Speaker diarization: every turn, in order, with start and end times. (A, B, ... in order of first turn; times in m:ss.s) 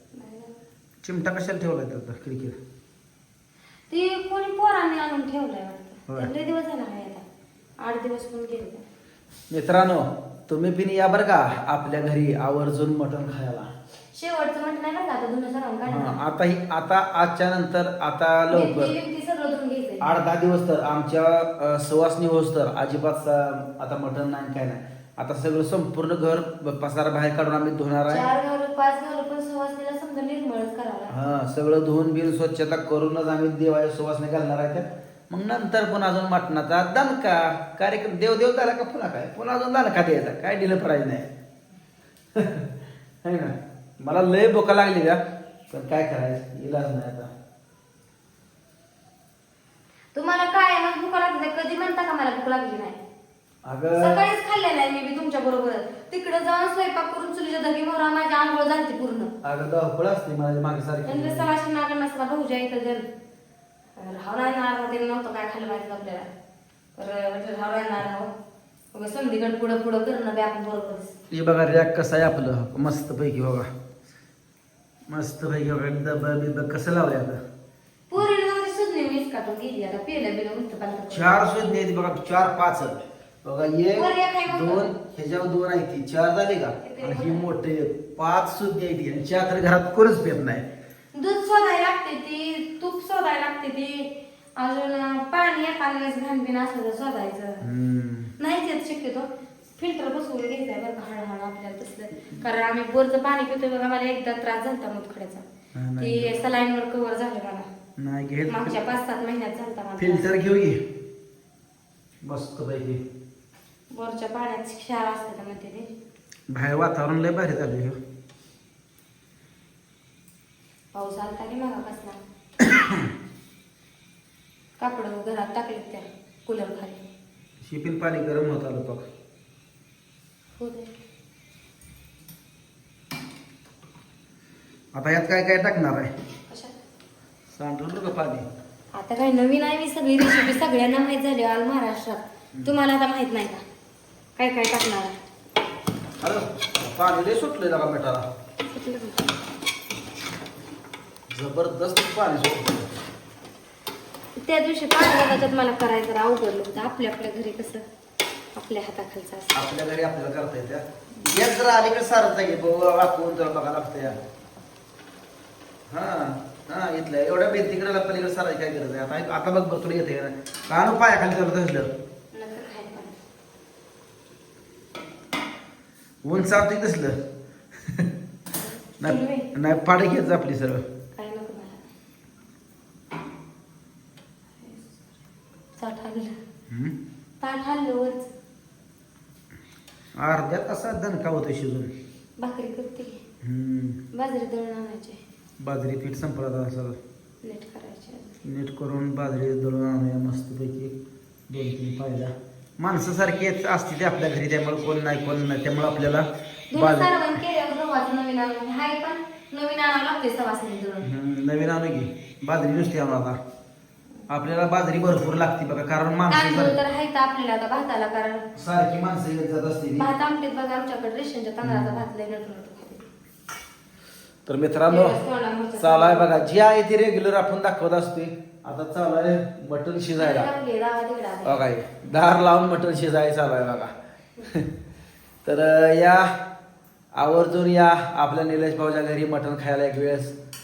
0:00.1-0:00.6 A
0:01.0-0:02.6 B
0:03.9-0:07.2 A
0:07.8-0:08.8 A
0:09.5-0:13.7 B
0:14.1-0:16.2 A
0:15.9-0:18.9 B
0:18.5-0:20.1 A
0:20.0-0:28.2 B
0:28.1-0:31.2 A
0:31.1-0:41.3 B
0:42.4-0:42.7 B
0:43.2-0:47.3 B
0:50.1-0:53.0 A
0:53.7-0:54.2 B
0:54.0-0:59.3 A
0:59.4-1:01.5 B
1:01.0-1:03.1 A
1:04.0-1:06.3 A
1:07.0-1:08.3 A
1:08.9-1:11.1 A
1:11.3-1:13.7 B
1:15.1-1:17.4 B
1:18.1-1:21.5 A
1:21.1-1:30.6 B
1:23.9-1:24.9 A
1:26.8-1:27.5 A
1:31.1-1:37.7 A
1:37.6-1:38.3 B
1:38.4-1:45.4 A
1:45.8-1:46.4 B
1:46.0-1:47.7 A
1:48.0-1:48.8 B
1:48.5-1:50.4 A
1:50.0-1:50.8 B
1:52.2-1:53.0 B
1:53.9-1:56.0 A
1:56.5-1:58.0 B
2:00.9-2:02.2 A
2:02.6-2:03.1 B
2:04.8-2:07.0 A
2:07.6-2:09.1 B
2:10.6-2:10.9 A
2:15.0-2:16.1 B
2:16.5-2:16.8 A
2:17.5-2:18.5 B
2:18.9-2:23.6 A
2:24.4-2:25.2 A
2:26.2-2:28.3 B
2:28.7-2:29.2 A
2:31.3-2:32.9 B
2:34.4-2:37.9 A
2:38.6-2:39.6 A
2:39.5-2:44.2 B
2:45.9-2:51.9 B
2:52.3-2:53.2 A
2:56.2-2:57.2 B
2:58.5-2:59.5 A
2:59.0-3:00.8 B
3:01.2-3:01.9 A
3:04.6-3:05.1 A
3:05.8-3:06.4 A
3:06.7-3:07.0 B
3:07.4-3:08.3 A
3:10.2-3:11.9 B
3:12.4-3:13.2 A
3:13.4-3:14.0 B
3:14.1-3:15.2 A
3:15.6-3:17.0 B
3:17.4-3:18.4 A
3:18.4-3:21.0 B
3:21.5-3:27.2 B
3:26.7-3:31.1 A
3:31.0-3:33.4 B
3:34.3-3:36.8 B
3:36.3-3:38.5 A
3:38.6-3:40.1 B
3:40.0-3:43.1 A
3:41.6-3:42.0 B
3:44.5-3:45.2 B
3:44.9-3:46.3 A
3:45.8-3:50.5 B
3:50.2-3:51.6 A
3:51.4-3:53.9 B
3:54.4-3:54.7 B
3:55.4-3:56.3 B
3:57.2-4:00.4 B